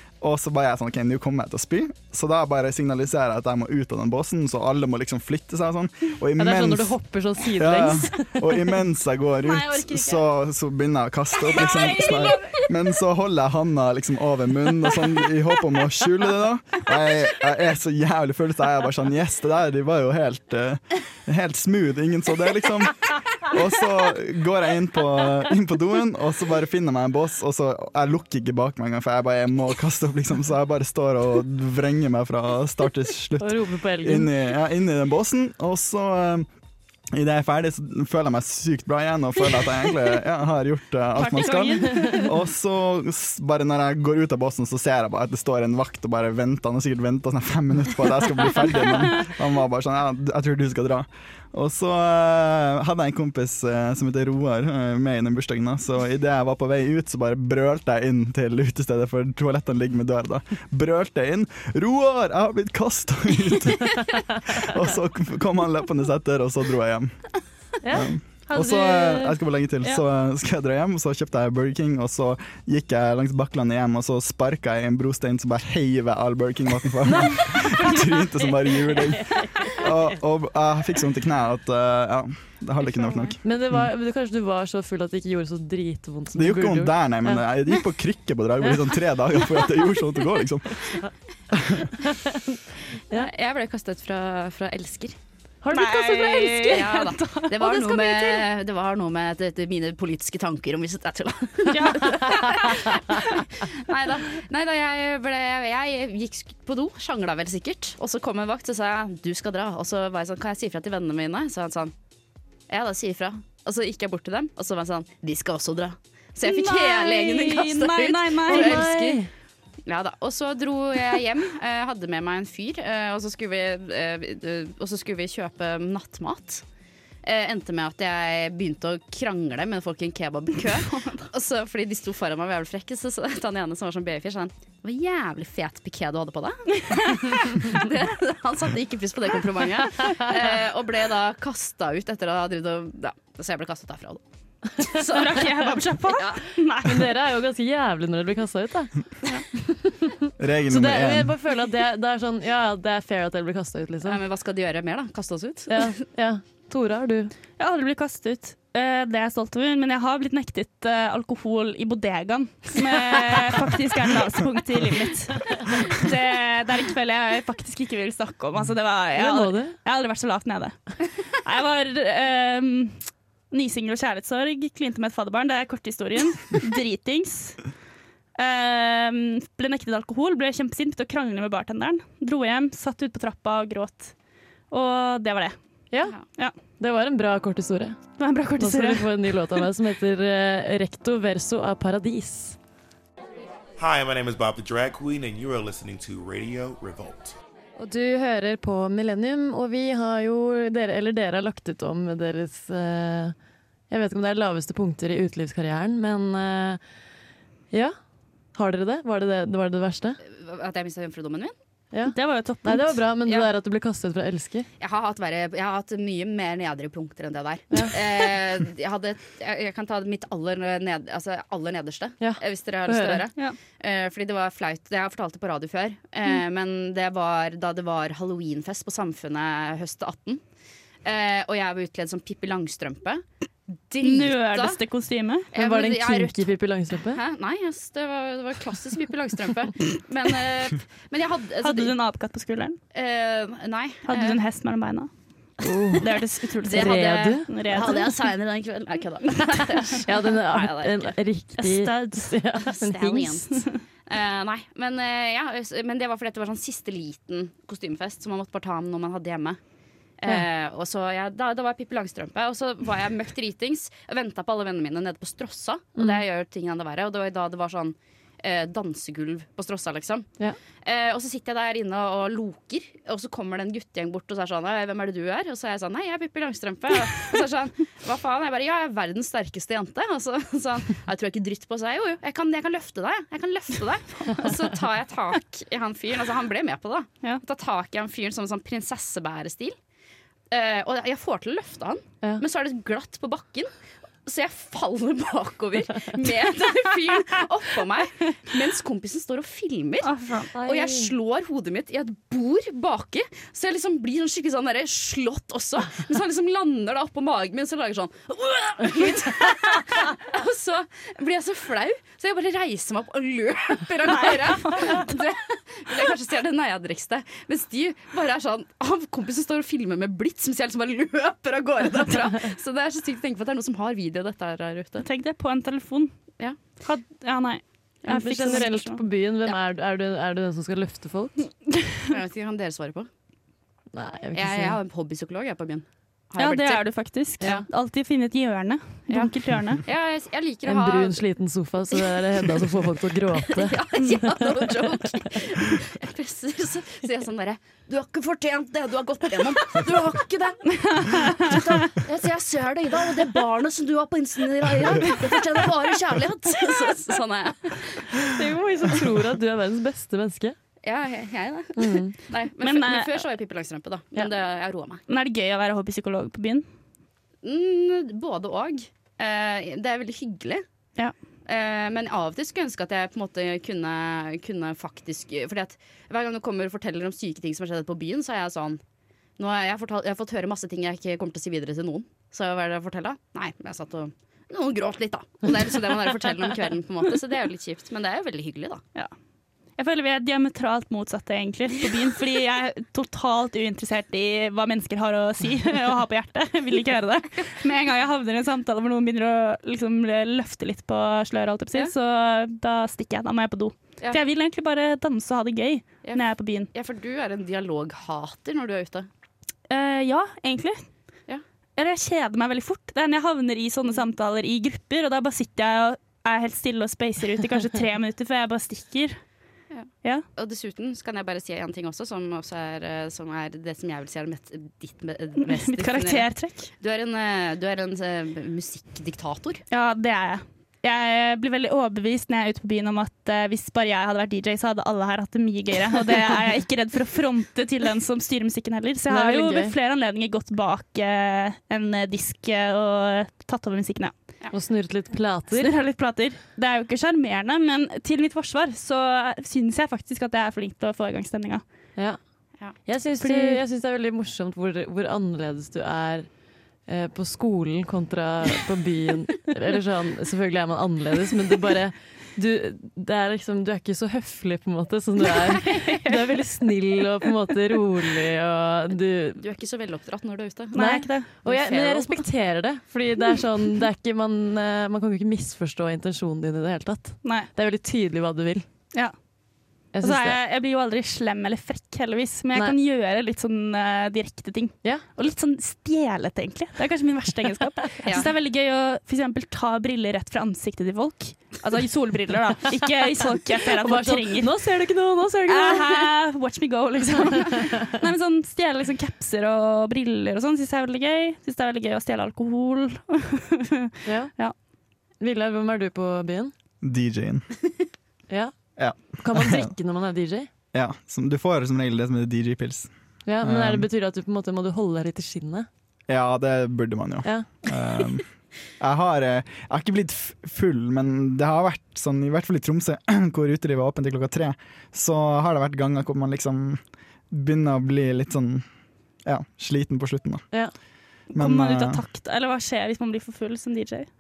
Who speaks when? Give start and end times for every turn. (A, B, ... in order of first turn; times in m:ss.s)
0:00.2-0:06.9 A
0:06.4-0:08.7 B
0:07.5-0:36.5 A
0:09.4-0:10.2 C
0:11.4-0:12.7 C
0:33.4-0:34.3 B
0:37.1-1:07.2 A
0:41.1-0:42.4 C
1:07.8-1:08.1 B
1:07.9-1:23.9 A
1:08.5-1:10.0 C
1:17.0-1:17.6 B
1:17.8-1:18.1 C
1:19.2-1:19.9 B
1:23.4-1:27.4 B
1:26.3-1:31.0 A
1:31.5-1:31.9 A
1:32.0-1:32.4 B
1:33.1-1:35.2 D
1:35.6-1:36.9 B
1:35.7-1:38.4 C
1:36.6-1:51.9 D
1:41.7-1:42.8 C
1:52.7-1:59.2 D
1:56.4-1:58.9 C
1:58.5-1:59.3 B
1:59.8-2:06.6 D
2:07.2-2:24.2 D
2:24.8-2:26.4 D
2:24.9-2:27.1 C
2:26.8-2:28.9 B
2:29.5-2:34.2 B
2:30.4-2:31.3 A
2:34.0-2:35.9 D
2:35.7-2:37.3 B
2:37.6-2:57.6 C
2:49.2-2:49.8 B
2:58.4-3:04.1 C
3:04.7-3:05.6 C
3:06.8-3:08.0 B
3:08.2-3:09.1 C
3:08.6-3:12.6 B
3:13.8-3:17.3 E
3:17.8-3:23.3 B
3:23.9-3:26.8 B
3:28.5-3:30.2 B
3:30.2-3:31.5 D
3:31.9-3:34.7 B
3:32.0-3:33.0 C
3:34.8-3:50.4 D
3:42.2-3:43.2 B
3:51.0-3:53.2 D
3:53.9-3:54.8 D
3:54.0-3:55.5 C
3:55.5-3:56.5 D
3:55.5-3:57.2 B
3:57.1-4:01.9 D
4:01.6-4:02.8 C
4:02.9-4:04.4 D
4:04.0-4:05.1 C
4:05.6-4:06.0 B
4:06.0-4:08.1 C
4:06.6-4:11.1 D
4:06.7-4:07.9 B
4:10.0-4:13.5 B
4:11.6-4:12.3 C
4:12.6-4:19.6 D
4:13.5-4:13.8 C
4:20.2-4:30.3 D
4:30.8-4:49.8 D
4:50.5-4:53.7 D
4:54.2-5:25.0 D
5:00.0-5:00.5 C
5:00.4-5:01.1 B
5:14.0-5:15.1 C
5:25.0-5:26.1 C
5:26.8-5:29.0 C
5:28.1-5:28.6 D
5:28.1-5:31.5 B
5:32.1-5:33.1 D
5:33.9-5:34.8 B
5:34.3-5:36.8 D
5:36.4-5:39.8 C
5:39.8-5:41.2 D
5:40.6-5:44.8 B
5:42.0-5:42.7 D
5:43.4-5:58.4 D
5:50.8-5:51.8 C
5:58.1-6:00.5 B
6:00.8-6:05.0 D
6:01.8-6:02.1 B
6:02.6-6:03.2 C
6:05.1-6:06.6 C
6:07.4-6:10.6 D
6:11.4-6:18.8 D
6:19.4-6:28.8 D
6:29.8-6:46.7 C
6:46.7-6:49.1 D
6:49.7-6:50.8 C
6:51.8-6:59.2 C
6:59.7-7:06.2 D
7:05.4-7:06.7 C
7:06.8-7:09.6 D
7:09.7-7:24.1 C
7:19.1-7:19.7 B
7:24.5-7:25.7 B
7:25.5-7:31.6 C
7:32.8-7:36.3 B
7:33.2-7:33.6 C
7:36.9-7:49.4 B
7:45.7-7:46.1 C
7:49.4-7:50.8 D
7:50.7-7:51.3 C
7:50.7-7:58.6 B
7:51.4-7:52.2 D
7:59.9-8:00.4 B
8:00.0-8:14.5 C
8:13.8-8:16.1 B
8:15.5-8:24.5 C
8:17.3-8:18.0 B
8:24.0-8:24.3 B
8:25.2-8:26.5 B
8:26.8-8:27.4 A
8:28.3-8:28.5 B
8:28.8-8:29.7 A
8:29.2-8:30.5 B
8:30.7-8:33.9 A
8:33.2-8:35.7 B
8:36.1-8:38.2 A
8:38.8-8:48.6 A
8:49.2-8:50.4 A
8:51.3-8:54.1 C
8:51.3-8:52.0 A